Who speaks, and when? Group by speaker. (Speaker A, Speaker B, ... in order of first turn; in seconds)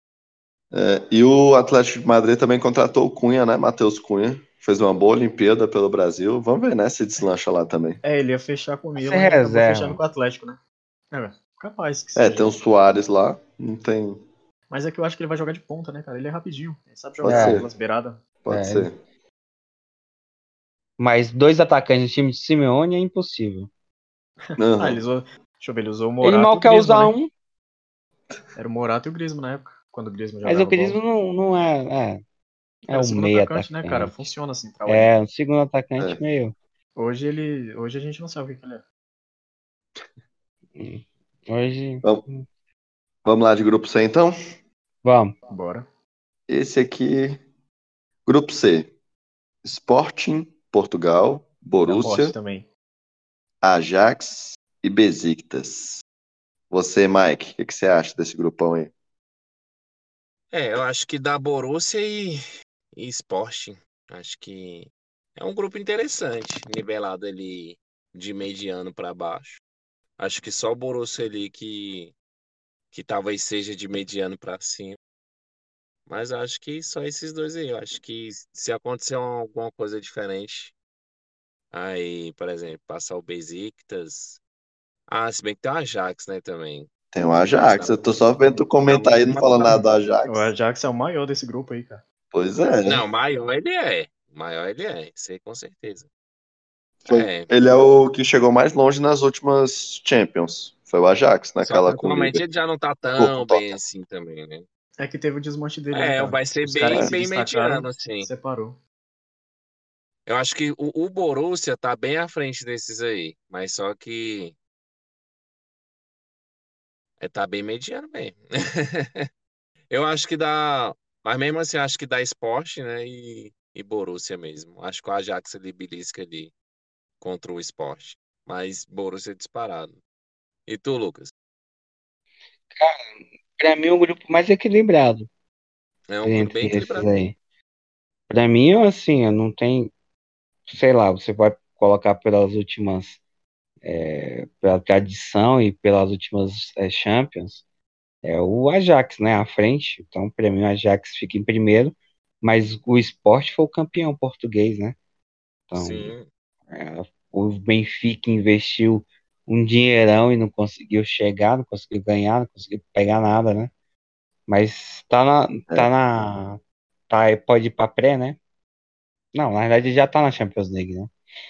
Speaker A: 0.7-8.0, 12.2-14.2, 17.2-17.7, 18.4-19.0, 24.6-25.0, 43.2-44.4, 46.5-47.4, 48.3-48.9, 49.6-52.4, 53.6-56.0, 56.7-58.9, 87.1-90.5, 92.3-93.0, 97.0-102.4, 103.2-103.8
Speaker B: 8.0-10.6, 11.1-12.5, 14.7-18.2, 24.5-27.1, 28.6-31.0, 32.9-35.1, 37.0-38.8, 45.5-45.9, 51.9-52.7, 89.7-92.0, 105.0-108.8
Speaker C: 9.0-10.0, 17.3-17.6, 18.5-18.9, 21.0-23.7, 26.2-27.3, 30.4-32.2, 32.9-34.3, 34.9-36.5, 40.8-42.5, 45.0-45.3, 133.6-135.3, 136.2-137.4, 138.3-139.9, 140.7-143.2, 143.8-147.6, 148.2-155.0, 155.7-156.2, 156.7-163.7, 164.5-168.4, 169.3-171.1
Speaker D: 60.5-62.4, 62.9-69.6, 70.2-72.2, 72.9-75.0, 76.1-80.7, 81.7-84.4, 85.1-86.9, 87.7-89.9, 92.9-96.1, 97.1-97.5, 101.6-104.7, 105.9-108.3, 110.3-114.6, 117.2-119.3, 119.9-126.5, 127.2-130.0, 130.7-131.3, 136.1-137.1, 155.8-156.3